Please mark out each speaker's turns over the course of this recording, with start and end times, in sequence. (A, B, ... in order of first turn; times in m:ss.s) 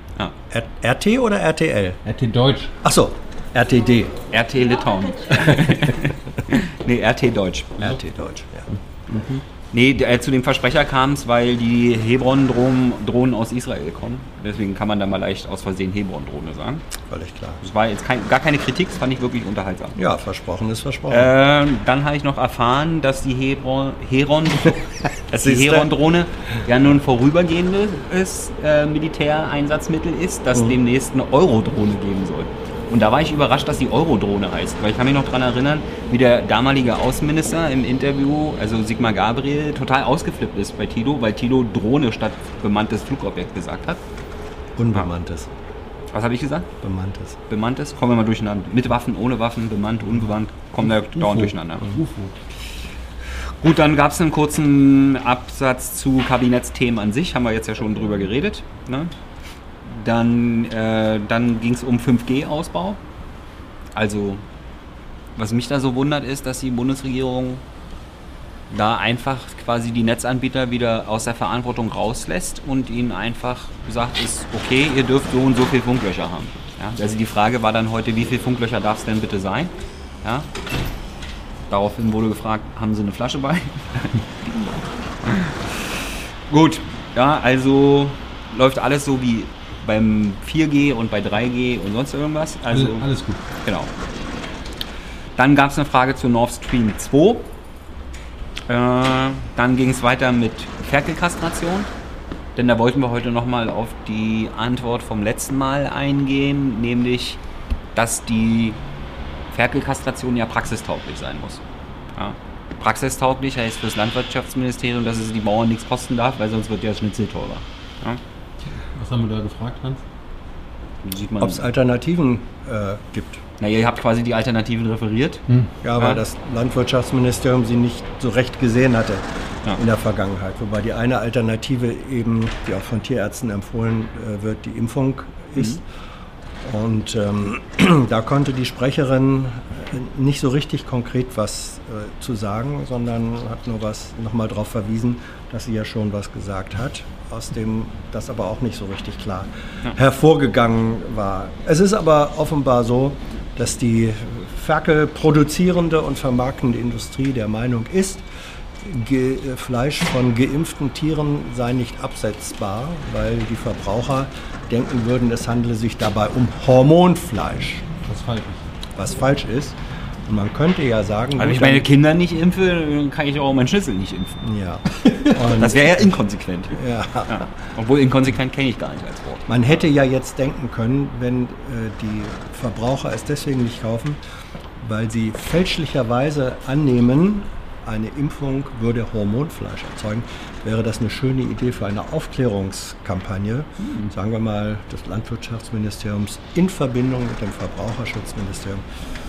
0:00.5-0:02.0 A
0:02.0-0:02.7 B
0:02.8-0:04.1 A
0:04.3-0:07.9 C
0:07.8-0:08.7 A
0:09.1-0:09.4 B
0:09.7-0:16.8 C
0:17.1-0:17.6 A
0:17.6-0:20.0 C
0:20.0-0:21.3 A
0:21.1-0:44.0 C
0:25.4-0:25.9 A
0:44.8-0:45.5 A
0:46.1-0:46.7 C
0:46.8-0:47.4 A
0:47.5-0:51.8 C
0:51.0-0:52.3 B
0:53.6-0:59.1 C
0:59.8-1:03.0 C
1:03.9-1:04.4 C
1:05.4-1:07.6 C
1:08.7-1:20.5 C
1:21.7-1:24.7 C
1:25.2-1:25.6 C
1:26.5-1:33.0 C
1:32.7-1:33.4 B
1:33.6-1:33.9 C
1:35.4-1:37.5 C
1:38.7-1:41.9 C
1:42.6-1:47.4 C
1:47.9-1:48.8 C
1:49.5-1:51.6 C
1:52.1-1:58.2 C
1:58.8-2:00.0 B
2:01.0-2:01.7 C
2:01.4-2:03.4 A
2:03.6-2:05.4 C
2:05.8-2:15.8 A
2:16.6-2:38.2 A
2:38.8-2:47.9 A
2:48.0-2:48.6 B
2:49.0-2:51.8 A
2:51.4-2:54.4 C
2:54.4-2:56.1 A
2:55.4-2:59.7 C
2:56.7-2:57.5 A
2:59.5-3:04.2 A
3:04.8-3:18.8 A